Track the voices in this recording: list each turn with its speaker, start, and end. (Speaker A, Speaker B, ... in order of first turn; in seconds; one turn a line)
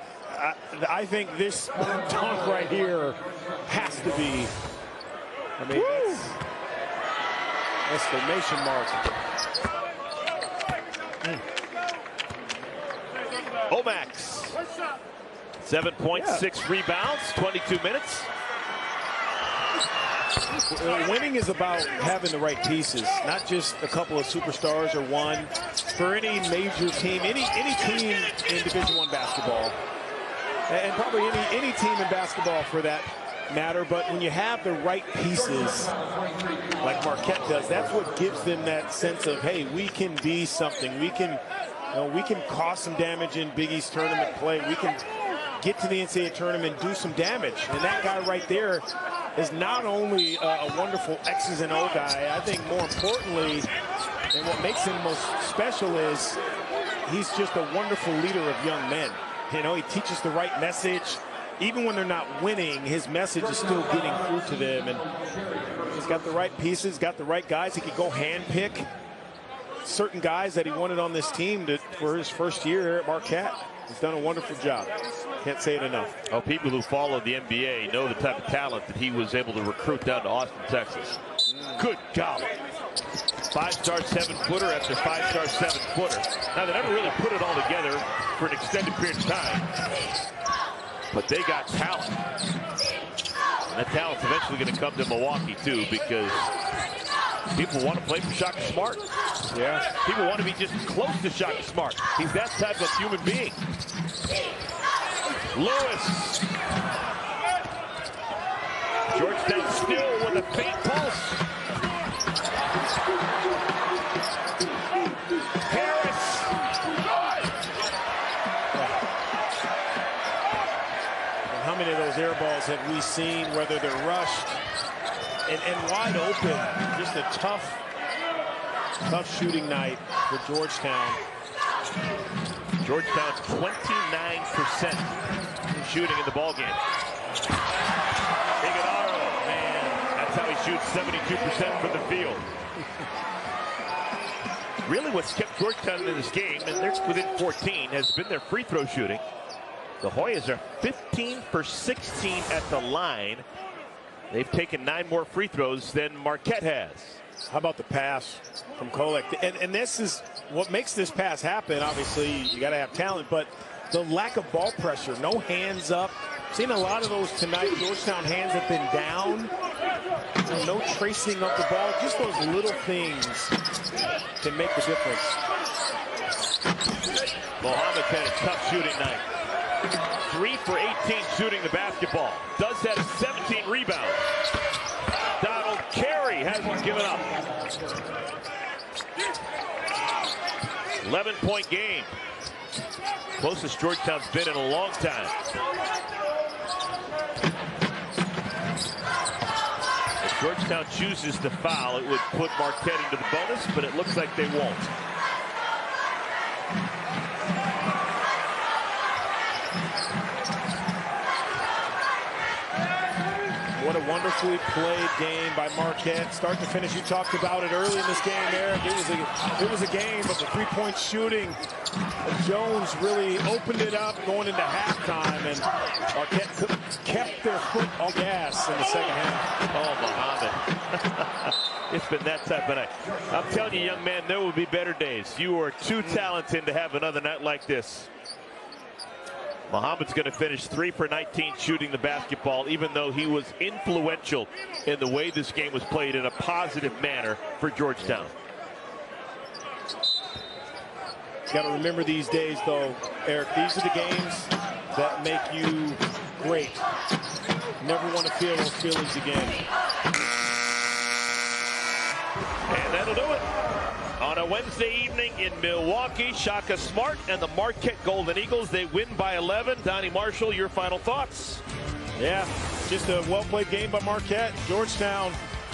Speaker A: 0.3-4.5
Speaker A: 5.6-6.3
Speaker B: 5.7-6.3
Speaker A: 7.9-9.0
Speaker B: 13.7-14.6
Speaker B: 15.6-18.3
Speaker A: 16.1-16.4
Speaker A: 20.7-29.8
Speaker A: 30.7-35.9
Speaker A: 36.8-45.0
Speaker A: 45.6-53.7
Speaker A: 54.3-56.4
Speaker A: 57.0-65.0
Speaker A: 65.8-68.9
Speaker A: 69.8-74.9
Speaker A: 75.4-76.2
Speaker B: 76.3-81.2
Speaker B: 81.8-82.5
Speaker B: 83.5-89.7
Speaker B: 91.1-92.2
Speaker B: 93.7-96.5
Speaker B: 97.5-99.0
Speaker A: 99.5-99.8
Speaker B: 99.9-103.6
Speaker B: 105.5-106.4
Speaker B: 109.1-111.4
Speaker B: 115.7-116.5
Speaker A: 121.5-124.6
Speaker A: 125.5-127.8
Speaker A: 129.1-131.2
Speaker B: 132.8-135.2
Speaker B: 135.7-136.8
Speaker B: 138.6-142.5
Speaker B: 144.8-149.2
Speaker B: 150.0-153.4
Speaker B: 154.3-157.2
Speaker A: 157.5-169.5
Speaker A: 170.4-173.5
Speaker A: 174.4-175.4
Speaker B: 177.6-179.3
Speaker B: 180.3-184.3
Speaker B: 185.4-187.3
Speaker B: 191.0-192.2
Speaker B: 193.4-195.3
Speaker B: 200.2-204.9
Speaker A: 213.8-221.6
Speaker A: 222.2-229.5
Speaker B: 229.7-238.1
Speaker B: 239.7-248.3
Speaker A: 251.5-256.8
Speaker A: 257.8-259.6
Speaker B: 262.7-263.5
Speaker B: 264.2-271.6
Speaker A: 272.2-275.4